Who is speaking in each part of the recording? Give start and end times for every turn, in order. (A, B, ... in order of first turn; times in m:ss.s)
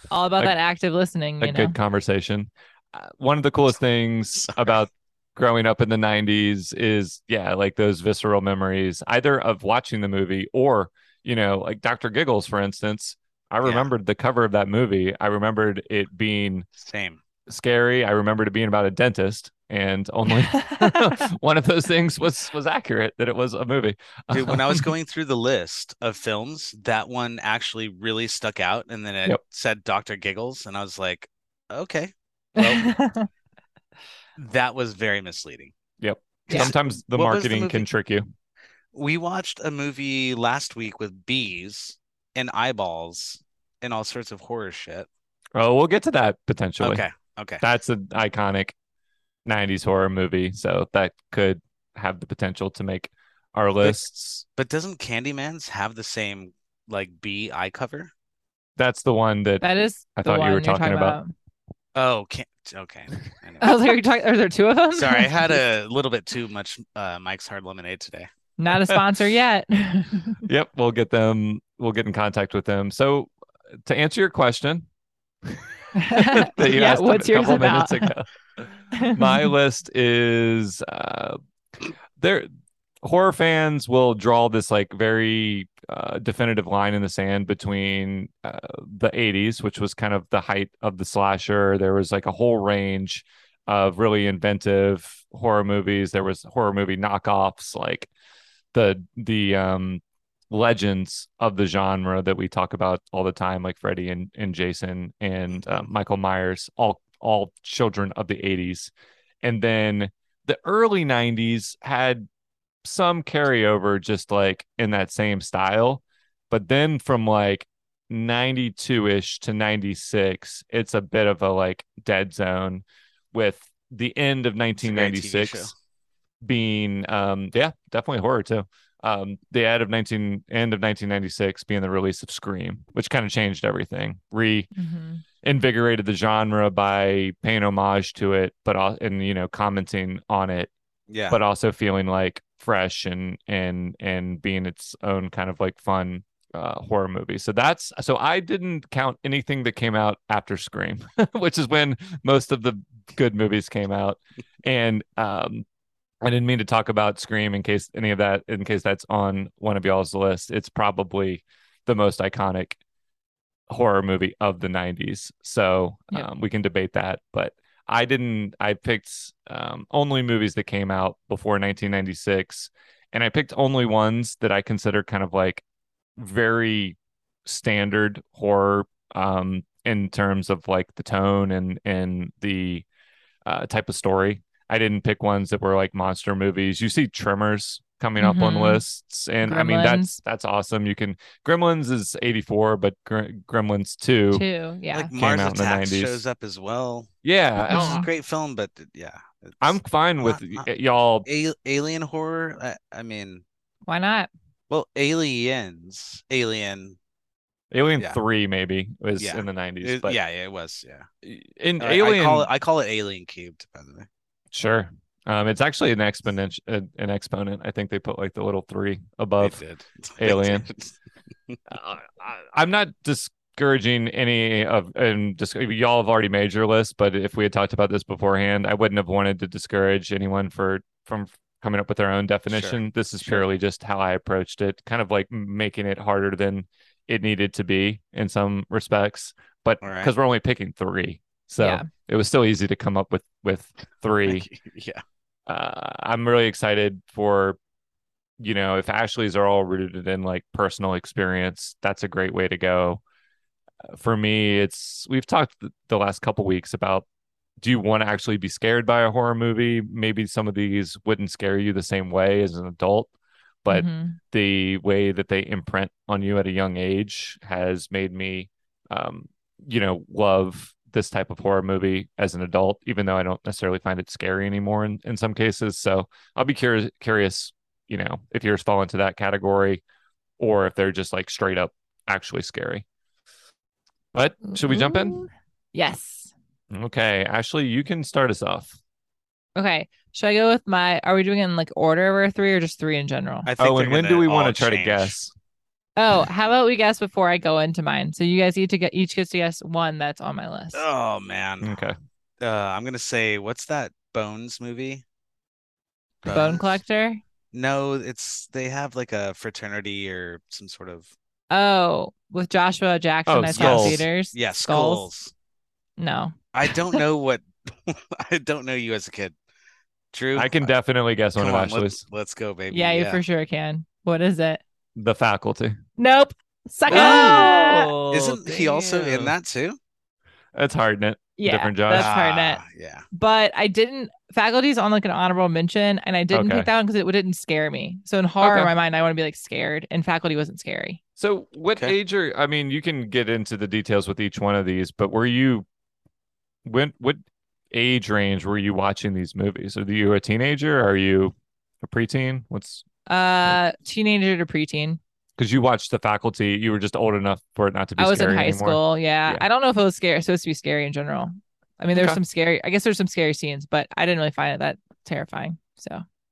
0:00.1-0:01.8 A
0:01.4-0:16.7 B
0:04.4-0:04.7 C
0:13.6-0:13.9 C
0:16.8-0:17.2 C
0:17.5-0:24.9 B
0:24.3-0:32.9 C
0:32.6-0:33.3 A
0:34.4-0:35.7 C
0:36.0-0:38.3 B
0:36.5-0:37.9 C
0:38.9-0:45.1 C
0:45.6-0:47.0 B
0:46.8-0:47.6 C
0:47.6-0:48.7 B
0:49.4-0:54.4 B
0:54.6-0:58.1 C
0:58.8-1:01.2 B
0:59.6-1:01.3 A
1:02.0-1:03.8 C
1:03.6-1:05.3 A
1:05.0-1:08.3 C
1:08.6-1:10.4 A
1:10.5-1:13.3 B
1:13.8-1:14.9 B
1:15.5-1:21.4 B
1:16.0-1:18.1 A
1:19.0-1:19.5 A
1:22.2-1:22.5 B
1:23.0-1:38.1 B
1:38.7-1:48.9 B
1:49.4-1:52.3 B
1:52.8-2:05.7 B
2:04.8-2:05.7 C
2:06.4-2:14.7 B
2:14.8-2:15.2 A
2:15.4-2:20.7 B
2:21.1-2:21.4 C
2:21.3-2:35.6 B
2:36.2-2:42.8 B
2:43.7-2:55.6 B
2:56.2-3:02.9 B
3:03.4-3:14.4 B
3:08.2-3:08.8 A
3:09.4-3:10.2 A
3:14.3-3:15.1 A
3:14.9-3:17.1 C
3:15.1-3:16.2 B
3:17.2-3:18.0 B
3:17.7-3:20.7 C
3:17.7-3:18.1 A
3:19.6-3:21.3 B
3:21.3-3:23.4 C
3:23.9-3:24.3 A
3:24.7-3:27.0 C
3:27.7-3:30.2 B
3:29.2-3:31.1 C
3:31.2-3:32.5 B
3:31.8-3:34.1 C
3:34.5-3:39.6 B
3:39.4-3:40.9 C
3:40.2-3:40.7 B
3:41.7-4:04.5 B
3:52.5-3:53.4 C
3:59.8-4:00.1 C
4:01.6-4:01.9 A
4:04.3-4:05.0 C
4:05.5-4:07.6 B
4:08.4-4:13.0 B
4:13.9-4:17.1 B
4:17.6-4:23.1 B
4:23.6-4:39.8 B
4:23.7-4:24.2 A
4:40.4-4:42.8 B
4:44.1-4:45.2 B
4:44.4-4:46.3 A
4:46.7-4:48.8 B
4:49.6-4:53.5 A
4:53.5-4:55.2 C
4:53.6-4:55.3 B
4:56.0-5:00.8 A
5:00.7-5:01.9 C
5:01.6-5:02.0 B
5:02.4-5:05.0 C
5:06.2-5:06.8 C
5:06.3-5:07.2 A
5:07.5-5:11.1 C
5:11.5-5:15.1 A
5:13.3-5:14.0 B
5:13.6-5:15.3 C
5:16.0-5:17.0 A
5:16.5-5:19.3 C
5:20.1-5:20.7 C
5:20.4-5:22.0 B
5:21.4-5:23.2 C
5:22.7-5:24.6 A
5:25.0-5:25.8 B
5:26.0-5:27.9 A
5:26.9-5:27.5 C
5:26.9-5:29.4 B
5:28.1-5:29.8 C
5:30.6-5:32.1 B
5:31.4-5:41.0 A
5:31.9-5:33.0 C
5:36.3-5:36.7 B
5:38.4-5:38.7 B
5:41.2-5:45.7 B
5:46.6-5:52.8 B
5:53.1-5:55.0 A
5:55.4-5:59.4 B
5:58.0-6:06.0 A
6:01.9-6:02.2 B